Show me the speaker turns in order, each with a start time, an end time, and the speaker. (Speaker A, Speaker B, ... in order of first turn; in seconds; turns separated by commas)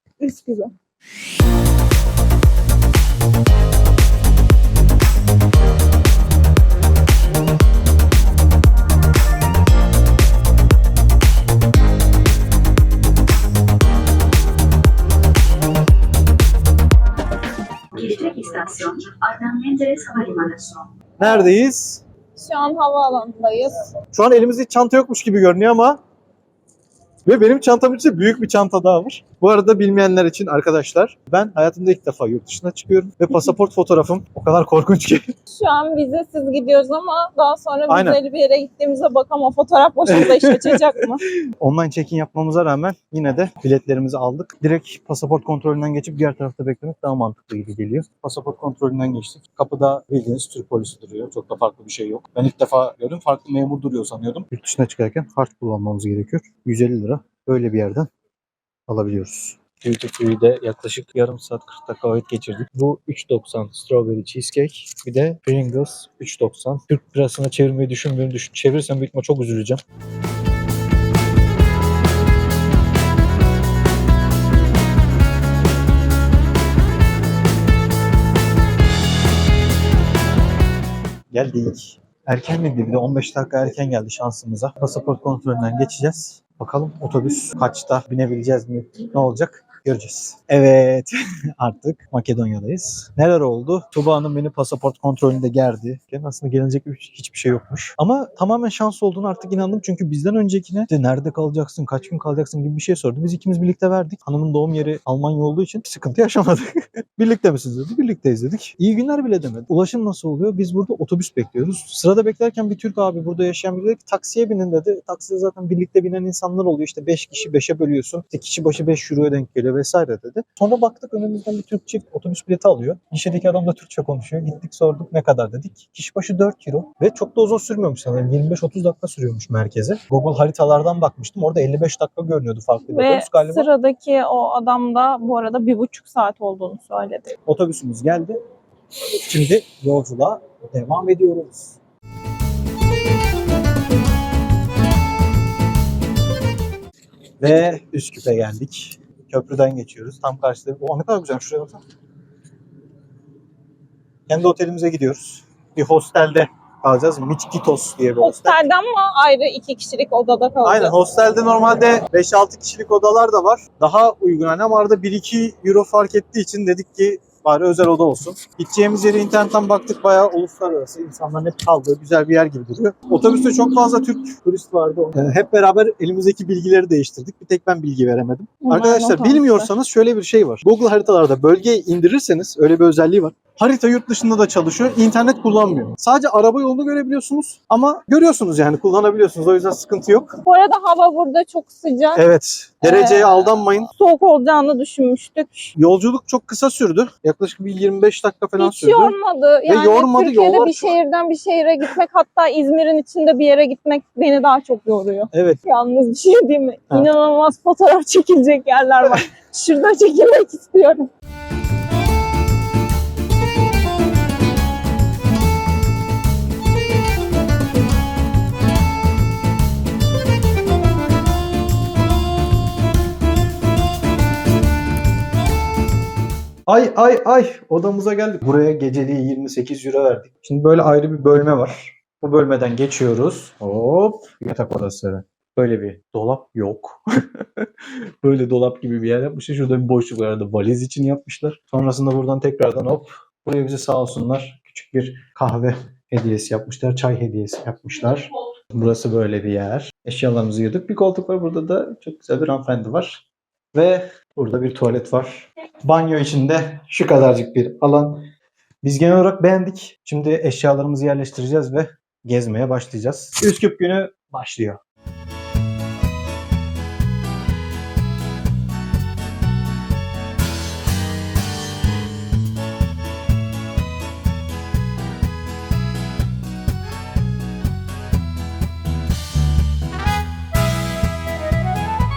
Speaker A: 0.2-0.7, Speaker B: 17.9-20.8, Speaker C: 21.2-22.0, Speaker A: 22.4-23.9, Speaker C: 24.1-26.0, Speaker C: 27.2-35.2, Speaker A: 35.5-41.2, Speaker C: 37.9-38.2, Speaker C: 40.1-41.0, Speaker C: 41.6-58.1, Speaker C: 58.9-69.8, Speaker C: 81.3-133.7, Speaker A: 132.9-137.3, Speaker C: 137.5-138.4, Speaker C: 139.2-141.8, Speaker C: 147.4-151.8, Speaker C: 154.3-158.6, Speaker A: 158.2-160.9, Speaker C: 160.6-190.3, Speaker A: 178.6-179.7, Speaker A: 190.4-192.2, Speaker C: 192.1-193.9, Speaker A: 192.8-195.7, Speaker C: 195.7-199.1, Speaker A: 198.6-211.1, Speaker C: 199.7-201.0, Speaker C: 205.3-205.6, Speaker C: 226.7-253.2, Speaker C: 253.7-258.2, Speaker C: 258.8-264.8